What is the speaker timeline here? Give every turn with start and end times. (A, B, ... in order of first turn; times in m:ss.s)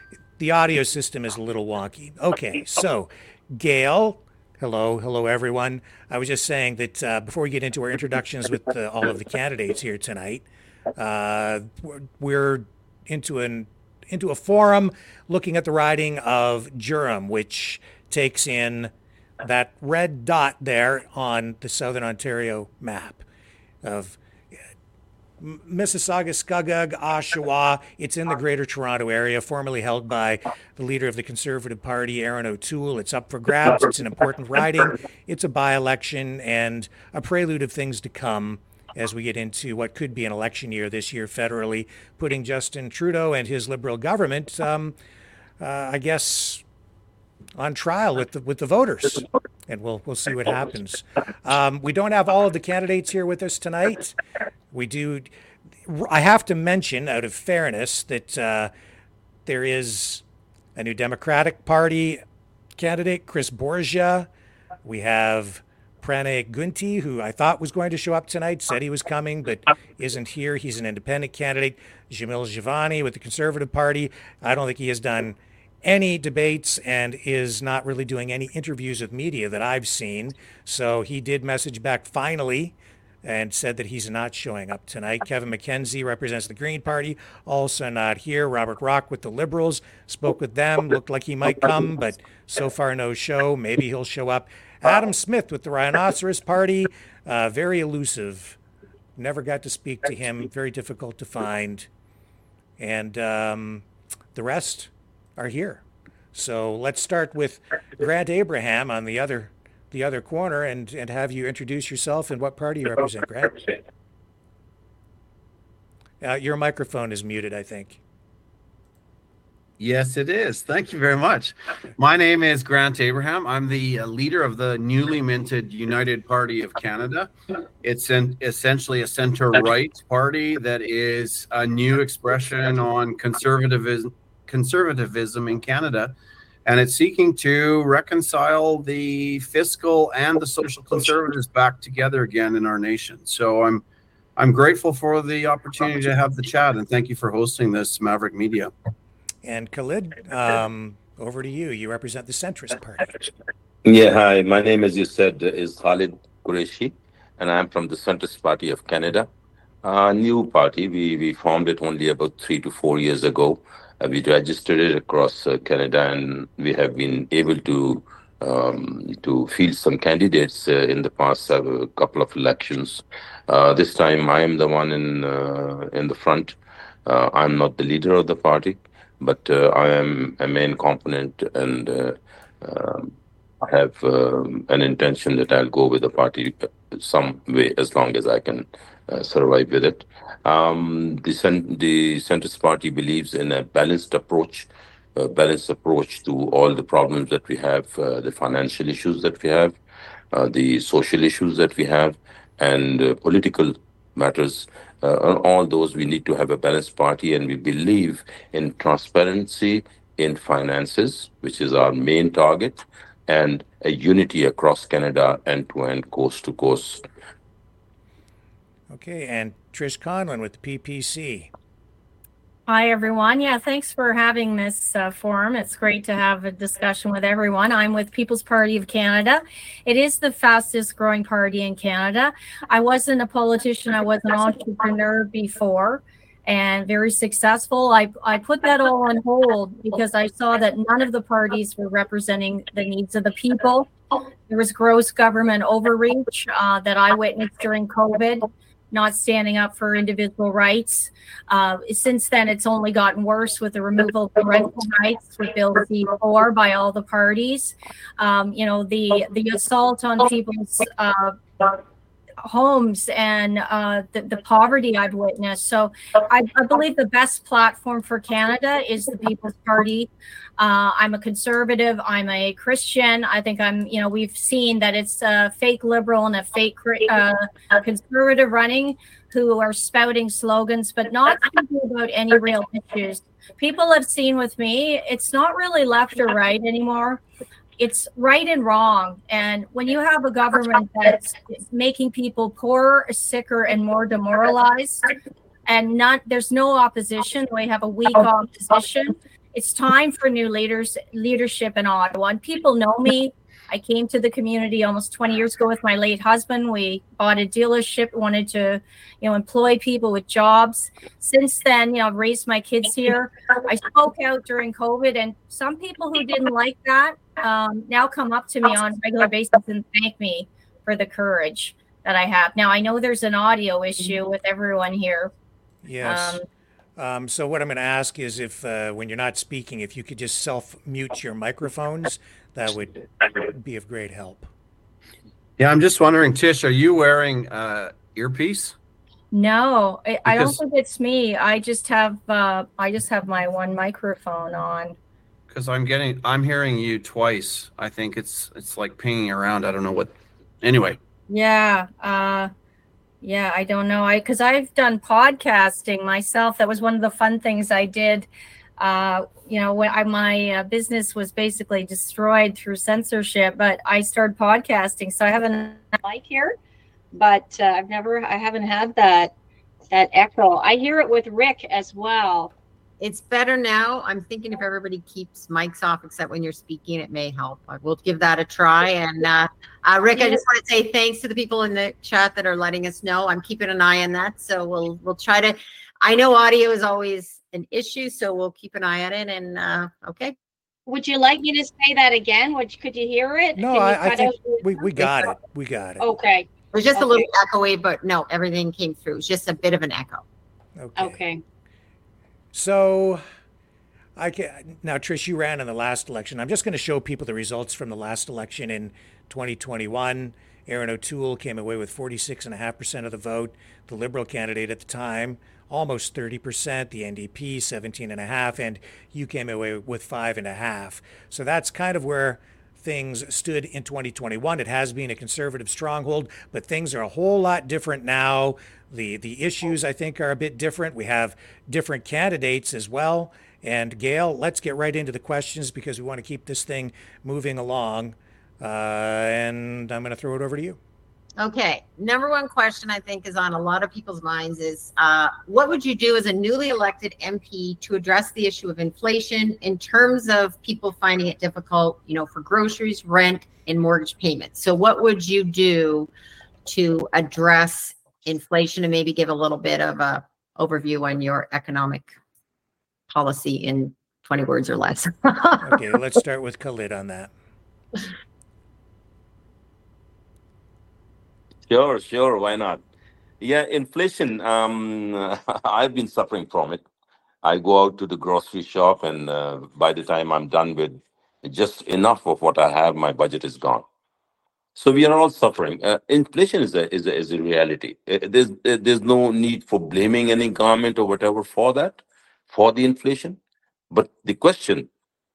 0:00.4-0:23.2 A
0:23.8-0:24.2 A
0:25.4-0:45.0 A
0:45.6-0:46.6 A
0:47.6-0:54.2 A
0:54.7-0:55.3 A
0:55.8-0:58.7 A
0:59.4-1:00.2 A
1:00.7-1:02.2 A
1:02.8-1:04.3 A
1:04.8-1:38.6 A
1:39.2-1:41.9 A
1:42.8-1:45.8 A
1:46.3-1:53.6 A
1:56.2-1:58.0 A
1:59.8-2:07.3 B
2:07.8-2:16.1 B
2:16.6-2:23.8 B
2:24.4-2:28.7 B
2:29.4-2:33.3 A
2:33.8-2:39.3 C
2:39.8-3:19.8 C
3:20.3-3:37.0 C
3:38.9-3:41.5 A
3:42.7-4:03.9 D
4:04.5-4:21.8 D
4:22.4-4:47.2 D
4:47.8-4:55.1 D
4:55.6-5:25.3 D
5:25.8-5:26.4 A
5:26.0-5:26.4 D
5:27.0-5:34.5 A
5:35.6-5:38.7 B
5:39.3-5:45.0 D
5:40.2-5:40.6 B
5:45.5-5:51.0 B
5:51.3-5:52.5 D
5:53.2-5:58.3 D
5:58.8-6:06.6 D
6:07.1-6:09.3 D
6:09.9-6:12.5 D
6:13.0-6:30.3 E
6:30.9-6:35.3 D
6:33.6-6:36.0 A
6:36.0-6:37.2 D
6:36.7-6:40.2 E
6:40.8-6:41.2 A
6:41.0-6:41.4 D
6:42.5-6:43.2 A
6:44.2-7:20.8 A
7:21.4-7:36.1 E
7:36.6-7:42.1 E
7:43.1-7:45.9 E
7:45.6-7:47.3 A
7:51.7-7:52.8 C
7:53.4-7:56.8 C
7:57.4-8:03.8 C
8:04.8-8:13.4 C
8:13.9-8:14.9 C